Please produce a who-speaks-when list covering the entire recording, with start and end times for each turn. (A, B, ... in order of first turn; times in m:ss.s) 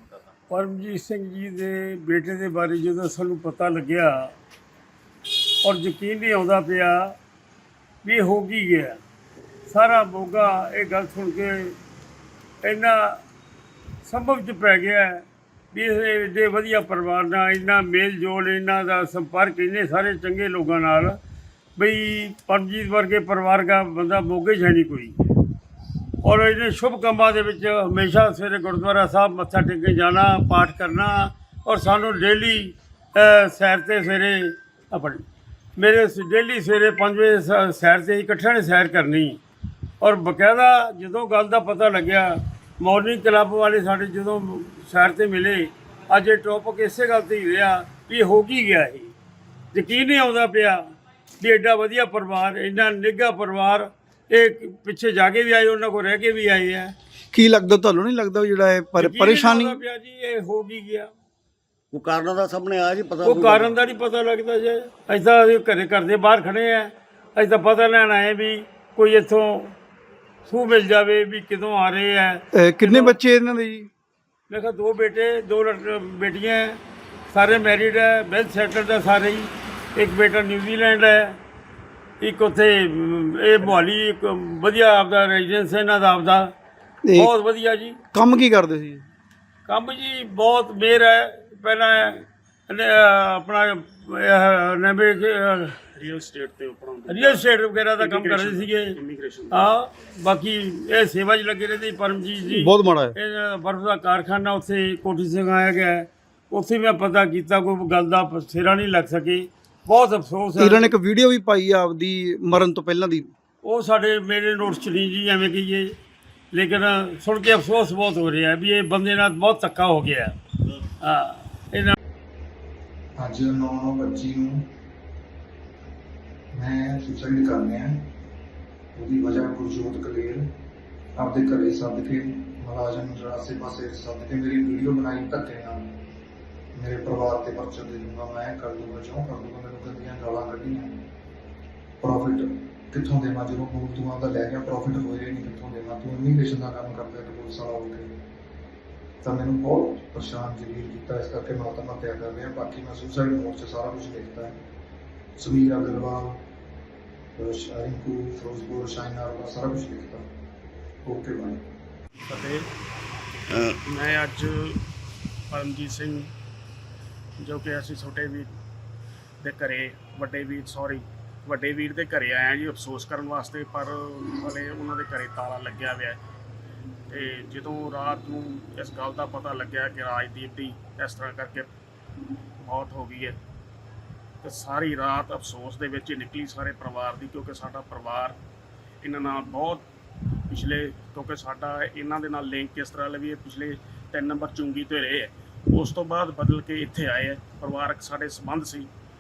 0:00.5-0:04.3 A
0:05.6-0:07.2 A
0:08.0-0:09.0 A
0:09.7-0:11.8 A
0:12.6-0:13.2 A
0:14.0-0:21.2 A
0:21.8-0:25.2 A
0:26.2-0:35.2 A
0:35.8-0:39.4 A
0:40.0-0:49.1 A
0:49.7-0:50.8 A
0:51.4-0:56.9 A
0:57.3-0:59.8 B
0:59.0-1:01.1 A
1:01.9-1:03.8 C
1:03.2-1:09.7 A
1:10.5-1:13.2 A
1:12.5-1:13.9 B
1:14.5-1:16.8 A
1:17.3-1:21.4 A
1:22.2-1:26.5 A
1:27.0-1:27.3 B
1:27.2-1:28.0 A
1:28.1-1:29.1 B
1:29.7-1:35.8 A
1:36.0-1:37.5 D
1:37.1-1:39.0 A
1:38.0-1:39.8 D
1:39.5-1:50.9 A
1:42.5-1:43.2 B
1:50.6-1:53.3 B
1:53.6-1:55.9 A
1:56.5-2:00.4 A
2:01.0-2:01.9 A
2:03.2-2:04.7 E
2:06.5-2:08.0 E
2:09.0-2:10.5 E
2:11.2-2:16.0 E
2:16.8-2:21.0 E
2:22.0-2:28.1 E
2:29.2-2:34.6 E
2:35.4-2:36.4 E
2:37.4-2:40.3 E
2:41.0-2:41.6 E
2:42.3-2:42.6 D
2:43.5-2:43.8 C
2:43.9-2:44.8 D
2:45.5-2:46.3 D
2:47.4-2:48.5 D
2:49.4-2:56.2 D
2:57.1-3:01.7 D
3:02.6-3:03.4 D
3:04.4-3:08.4 D
3:09.0-3:09.9 D
3:10.5-3:18.9 D